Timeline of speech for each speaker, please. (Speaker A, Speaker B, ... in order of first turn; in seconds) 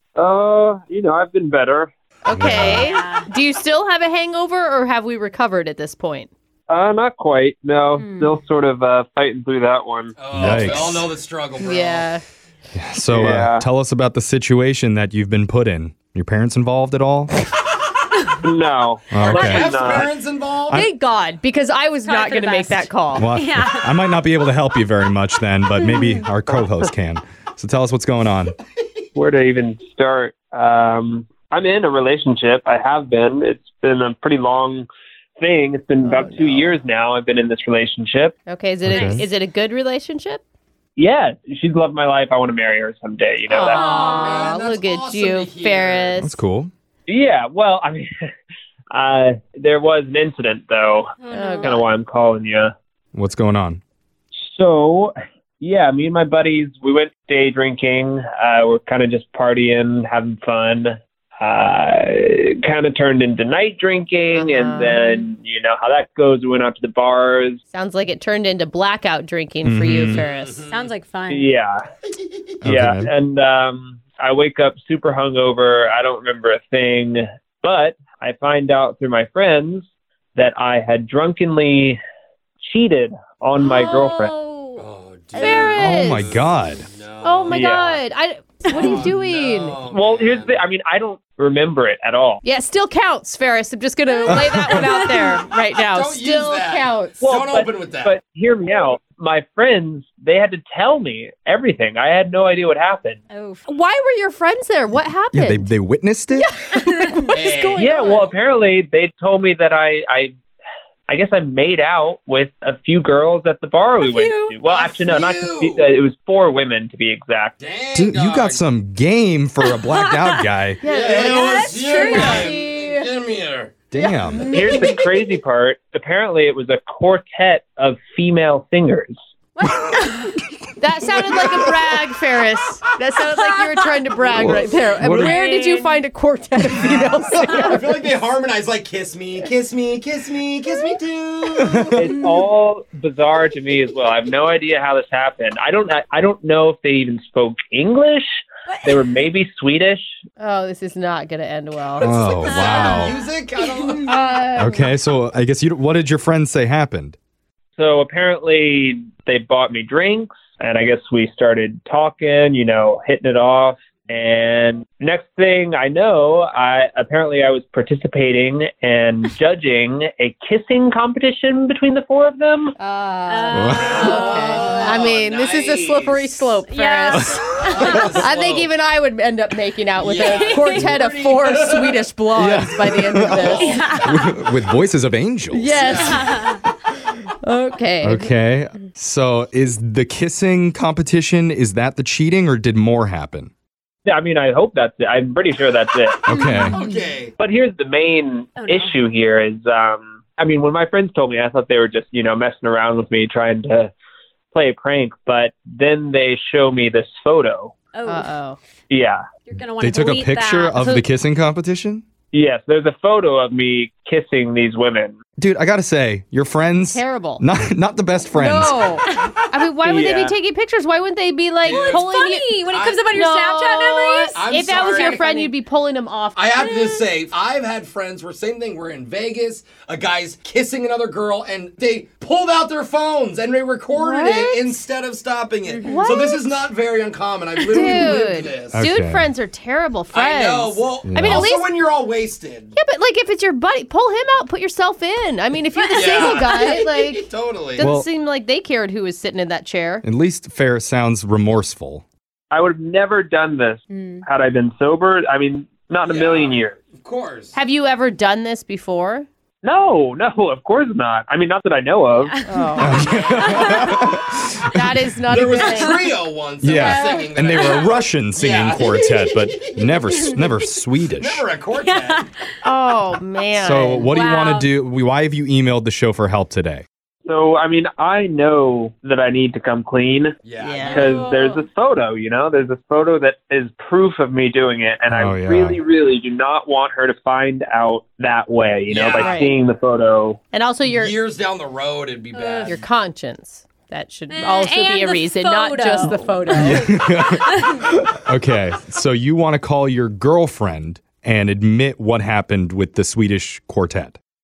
Speaker A: 0.2-1.9, 6.7-10.7, 13.1-13.6, 18.4-20.1, 26.5-26.9, 29.1-34.9, 35.4-38.4, 41.0-44.0, 47.1-48.1, 48.9-52.7, 54.4-67.6, 71.3-71.8, 72.6-82.0, 82.6-84.3, 87.5-88.0, 89.8-92.4, 97.2-103.2, 107.8-110.4, 111.1-117.5, 124.5-129.2, 141.9-150.1, 157.8-172.7, 173.8-174.6, 194.1-196.2, 197.4-203.9, 204.5-207.7, 208.9-209.2, 212.3-215.2, 219.8-220.3, 252.5-256.8, 259.6-262.4, 277.2-290.4
Speaker B: 2.2-6.3, 11.6-12.2, 20.7-23.3, 36.0-36.7, 38.5-40.4, 43.5-46.4, 51.3-51.8, 64.3-65.1, 67.7-70.6, 85.3-86.3, 87.2-89.8, 92.4-97.3, 103.7-105.7, 106.4-108.3, 120.8-123.1, 123.9-124.9, 130.8-137.9, 150.4-152.1, 154.0-154.9, 172.8-183.7, 185.5-186.2, 187.4-188.3, 196.5-196.7, 208.1-208.6, 216.9-217.4, 218.3-222.5, 223.1-226.5, 233.9-234.7, 235.8-236.4, 237.7-241.7, 242.7-250.0, 257.5-259.3, 262.4-264.0, 264.7-266.0, 272.6-274.1, 280.6-281.1, 289.2-289.5, 290.5-291.1, 292.6-296.9
Speaker C: 2.3-2.9, 10.3-11.1, 12.7-17.3, 19.1-19.7, 23.1-28.5, 38.8-39.2, 46.2-46.7, 53.1-53.8, 69.6-70.2, 72.6-73.1, 85.7-86.8, 94.3-94.8, 105.3-106.5, 117.9-120.8, 123.9-124.5, 134.3-135.3, 141.6-142.0, 152.0-153.2, 154.6-157.2, 173.5-174.0, 177.1-177.4, 182.3-186.2, 188.0-193.5, 196.3-196.8, 209.8-212.0, 215.4-218.8, 238.7-239.3, 241.1-241.4, 247.8-248.1, 250.0-252.0, 262.8-264.9, 266.6-271.4, 273.5-276.8, 285.1-285.8, 296.5-297.4, 298.2-304.2
Speaker D: 2.7-3.3, 8.0-8.4, 22.0-24.1, 25.7-26.2, 38.9-39.2, 43.6-44.5, 51.2-51.8, 70.7-71.5, 83.6-84.8, 88.6-88.9, 94.9-95.4, 103.3-103.7, 107.0-107.3, 114.0-114.6, 119.6-120.5, 121.2-122.4, 129.6-130.3, 133.2-134.2, 135.2-136.0, 148.7-149.0, 152.4-154.1, 173.2-174.4, 176.6-178.1, 180.2-180.9, 183.6-184.1, 186.1-186.6, 196.5-196.9, 198.6-198.9, 207.9-208.3, 209.5-211.0, 221.7-225.5, 226.5-227.1, 235.6-236.1, 245.7-246.6, 253.9-254.2, 262.1-263.8, 265.5-266.1, 266.6-267.9, 269.9-270.8, 271.7-272.4, 274.1-274.7, 281.0-281.7, 292.3-292.8, 294.3-296.7, 297.3-297.7
Speaker E: 10.2-12.1, 19.2-20.9, 43.7-46.2, 70.1-70.9, 84.8-87.7, 88.7-90.6, 95.7-98.2, 107.3-107.8, 114.6-115.9, 117.6-118.6, 120.8-123.8, 124.4-124.8, 131.1-132.0, 134.3-135.3, 136.7-142.1, 152.0-154.1, 173.7-176.5, 177.3-178.7, 179.9-182.1, 182.8-184.0, 185.7-186.3, 196.7-197.3, 221.6-222.1, 222.7-223.1, 224.3-225.5, 226.3-238.8, 240.1-242.7, 245.9-247.9, 256.1-257.5, 262.9-264.0, 265.3-270.5, 271.1-272.3, 280.4-281.3, 288.9-289.4, 290.8-292.8, 295.9-296.4